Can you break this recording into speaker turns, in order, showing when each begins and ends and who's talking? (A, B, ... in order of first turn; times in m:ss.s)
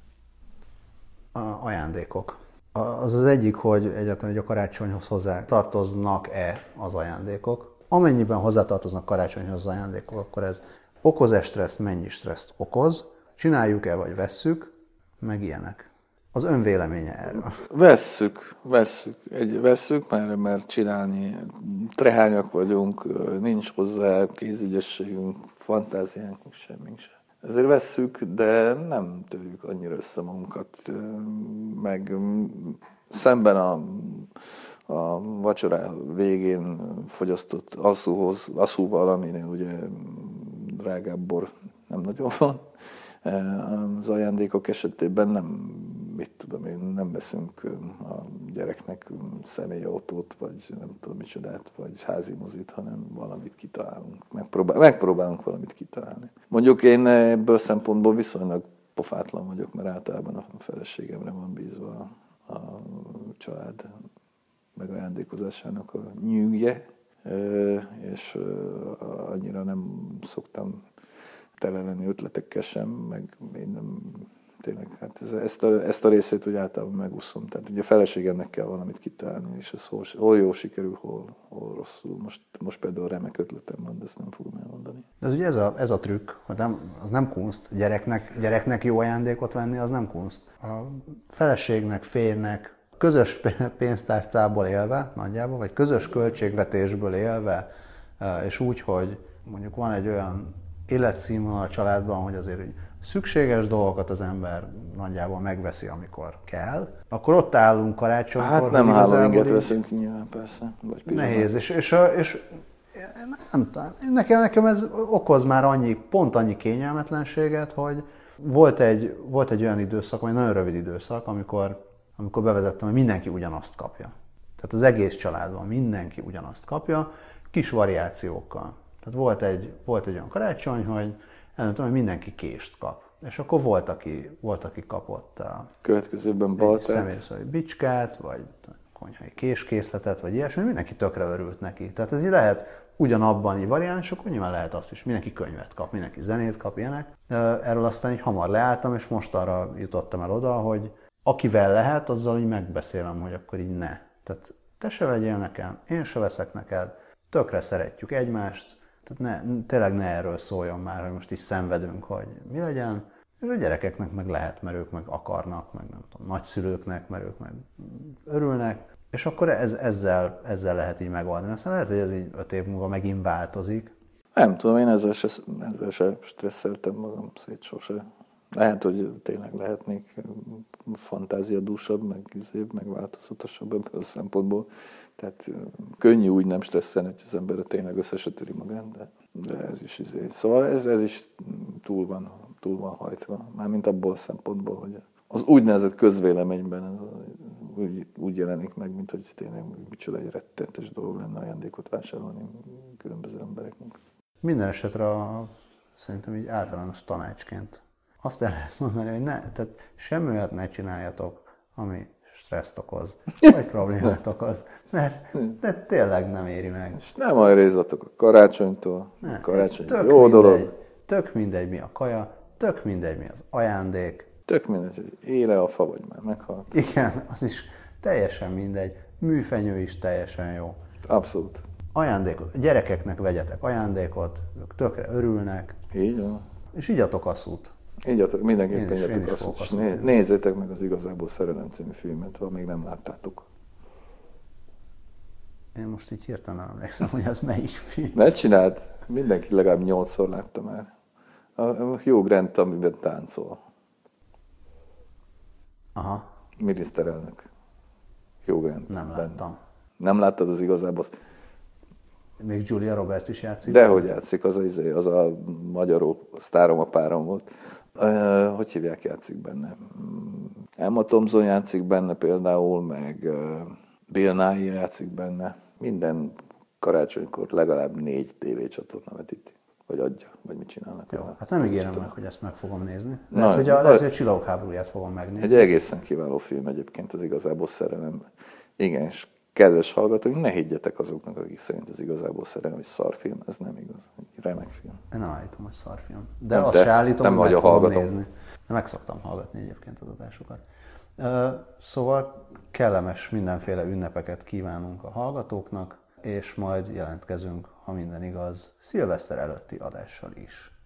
0:01.3-0:17.6 A
0:17.6-1:03.9 B
1:04.8-1:10.8 B
1:11.6-1:25.0 B
1:25.2-1:37.7 A
1:38.2-1:49.7 A
1:48.4-1:51.5 B
1:51.1-2:15.7 A
2:15.8-2:17.2 B
2:16.6-2:53.9 A
2:54.4-3:24.0 B
3:24.4-3:37.0 A
3:37.0-3:40.7 B
3:39.2-3:44.3 A
3:44.5-3:46.8 B
3:46.7-3:50.8 A
3:51.0-3:51.6 B
3:51.9-3:55.8 A
3:55.9-3:56.4 B
3:56.7-3:57.7 A
3:58.0-4:03.4 B
3:58.7-4:00.1 A
4:05.7-4:08.2 A
4:08.1-4:10.9 B
4:11.6-4:13.6 B
4:15.9-4:16.2 A
4:16.6-4:17.5 B
4:18.4-4:19.4 B
4:18.9-4:19.6 A
4:20.0-4:21.1 B
4:22.4-4:24.0 A
4:23.6-4:42.1 B
4:41.1-4:45.7 A
4:43.3-4:44.0 B
4:45.4-4:55.0 B
4:55.1-5:00.6 A
4:56.5-4:58.1 B
5:01.2-5:10.7 A